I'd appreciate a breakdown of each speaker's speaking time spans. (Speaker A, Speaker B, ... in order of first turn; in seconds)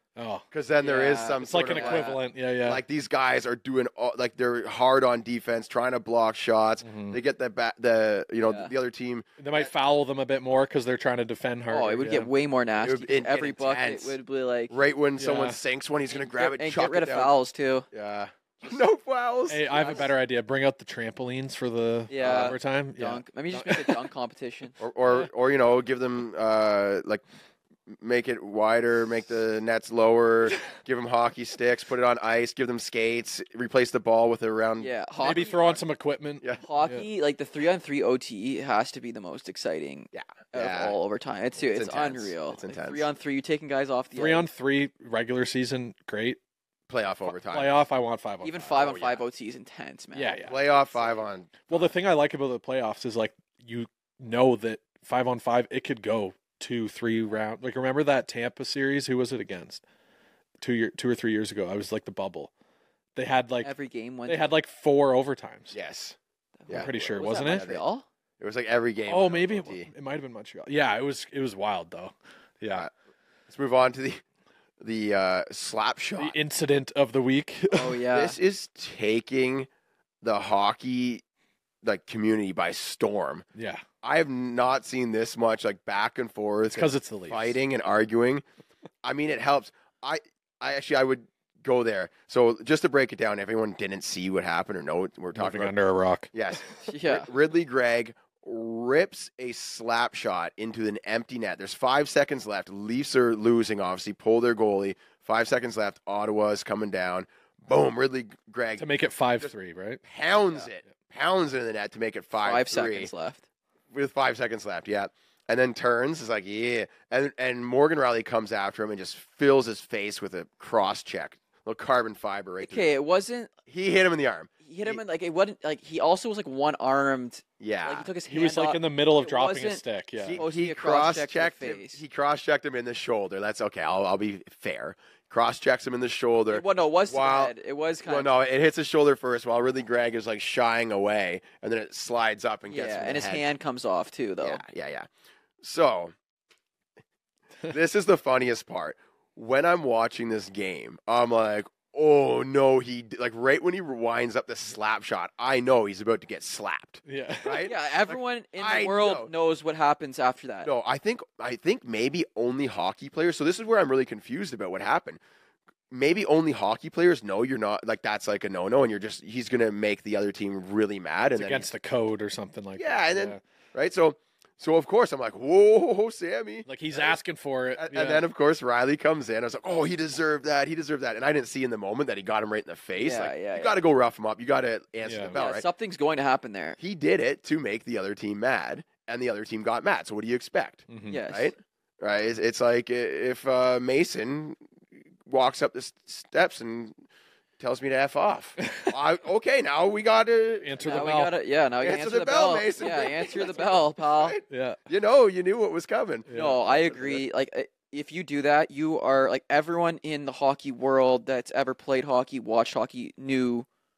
Speaker A: 0.2-0.5, 1.4-2.8, 6.8-7.2, 9.4-12.3, 15.2-15.6, 19.5-24.1, 35.2-37.0, 44.1-46.4, 47.3-48.8, 50.1-50.6, 51.7-59.8, 60.6-62.5, 63.2-63.7, 64.3-65.8, 66.7-67.7, 69.1-72.9, 76.2-78.0, 83.5-83.8, 86.7-87.6, 95.3-96.3, 108.8-110.0, 128.3-130.4, 157.1-157.7, 171.4-173.4, 176.7-178.2, 185.1-185.4, 190.9-191.2, 198.6-198.9, 200.6-201.3, 204.5-204.8, 206.3-206.6
Speaker B: 0.5-9.7, 12.8-14.2, 14.7-17.3, 17.9-20.0, 22.2-22.6, 24.8-27.2, 27.9-35.8, 40.1-41.0, 41.6-43.0, 46.9-47.8, 48.8-49.2, 50.4-51.9, 65.7-66.2, 67.5-67.8, 68.4-69.9, 73.5-74.2, 74.8-76.3, 78.1-79.7, 80.2-81.2, 81.8-83.5, 84.0-88.4, 89.0-95.7, 96.3-108.9, 110.0-113.1, 113.9-122.9, 123.7-125.0, 127.6-128.1, 130.2-137.5, 138.1-143.5, 144.4-145.1, 145.6-146.1, 147.7-159.3, 160.6-165.2, 165.9-171.7, 172.8-177.2, 177.8-185.7, 186.8-194.6, 195.2-197.0, 197.6-201.0, 201.8-207.2
Speaker C: 0.8-2.2, 8.4-8.7, 11.7-14.7, 16.1-17.9, 19.7-20.1, 22.1-24.8, 34.8-35.7, 36.6-44.5, 48.4-50.5, 63.6-64.5, 66.6-68.0, 77.7-78.4, 96.9-97.3, 112.4-113.4, 122.6-123.5, 124.6-129.8, 130.4-132.0, 136.5-138.3, 142.7-144.6, 157.6-160.7, 183.0-183.8, 185.3-186.8, 191.1-191.5, 200.8-204.4, 206.3-213.7